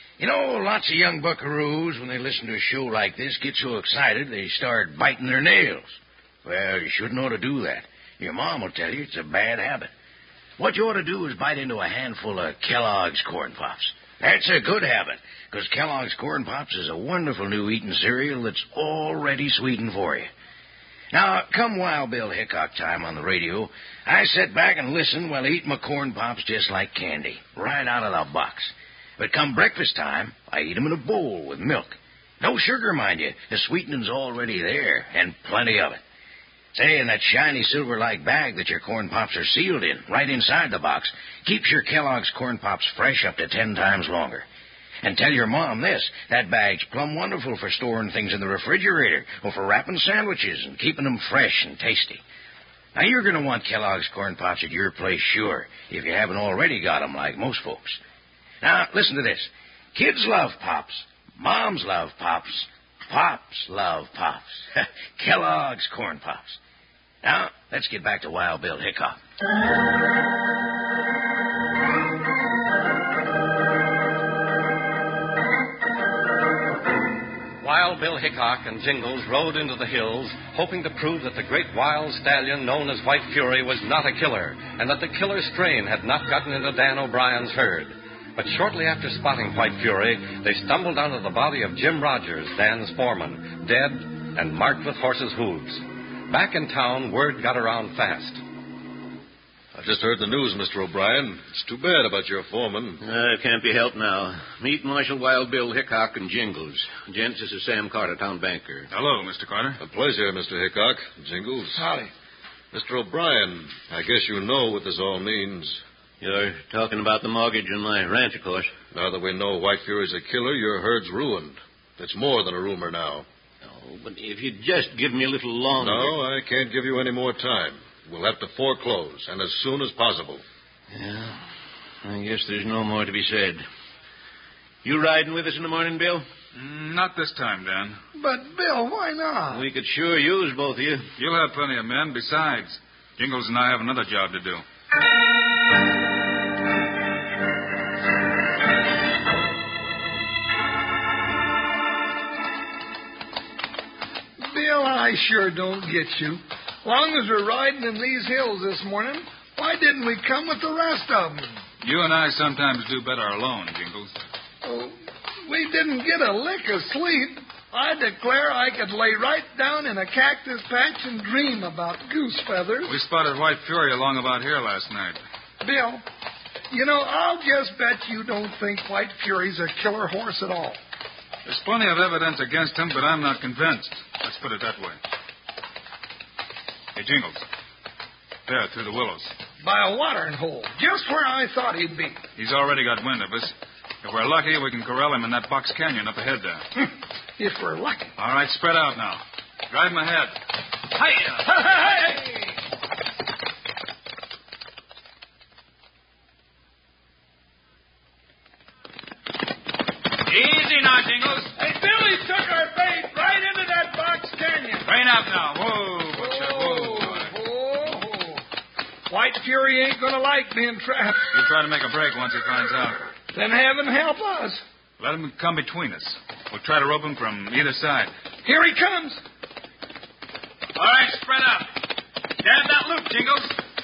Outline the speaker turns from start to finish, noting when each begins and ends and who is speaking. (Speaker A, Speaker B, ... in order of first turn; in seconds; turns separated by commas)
Speaker A: 0.2-9.9, Speaker A: 10.6-20.3, Speaker A: 21.1-36.0, Speaker A: 36.7-44.5, Speaker A: 45.0-52.2, Speaker A: 52.9-58.0, Speaker A: 58.6-66.6, Speaker A: 67.2-69.2, Speaker B: 77.6-98.4, Speaker C: 99.7-103.0, Speaker D: 103.0-108.9, Speaker E: 108.9-109.8, Speaker C: 109.8-111.8, Speaker F: 111.7-112.1, Speaker C: 112.7-115.8, Speaker D: 116.2-118.7, Speaker C: 118.9-123.3, Speaker D: 123.6-126.2, Speaker C: 125.8-130.4, Speaker D: 130.9-131.4, Speaker D: 132.0-133.6, Speaker D: 134.8-136.2, Speaker E: 136.5-138.0, Speaker F: 138.1-139.6, Speaker D: 139.5-141.1, Speaker E: 141.2-144.6, Speaker F: 154.4-161.6, Speaker E: 161.8-164.1, Speaker F: 164.6-172.9, Speaker E: 172.8-175.2, Speaker F: 175.6-176.0, Speaker F: 176.7-180.8, Speaker E: 181.4-185.0, Speaker E: 186.9-187.4, Speaker E: 188.4-189.3, Speaker F: 189.6-192.2, Speaker E: 192.3-196.6, Speaker F: 197.4-198.1, Speaker E: 198.2-200.3, Speaker E: 200.9-201.6, Speaker F: 201.5-202.5, Speaker E: 210.2-211.5, Speaker F: 211.6-214.8, Speaker E: 214.8-217.3, Speaker F: 216.1-218.4, Speaker F: 219.1-221.3, Speaker E: 221.3-223.0, Speaker F: 223.3-224.6, Speaker E: 225.0-228.1, Speaker F: 228.4-229.2, Speaker E: 230.8-231.7, Speaker E: 232.4-233.5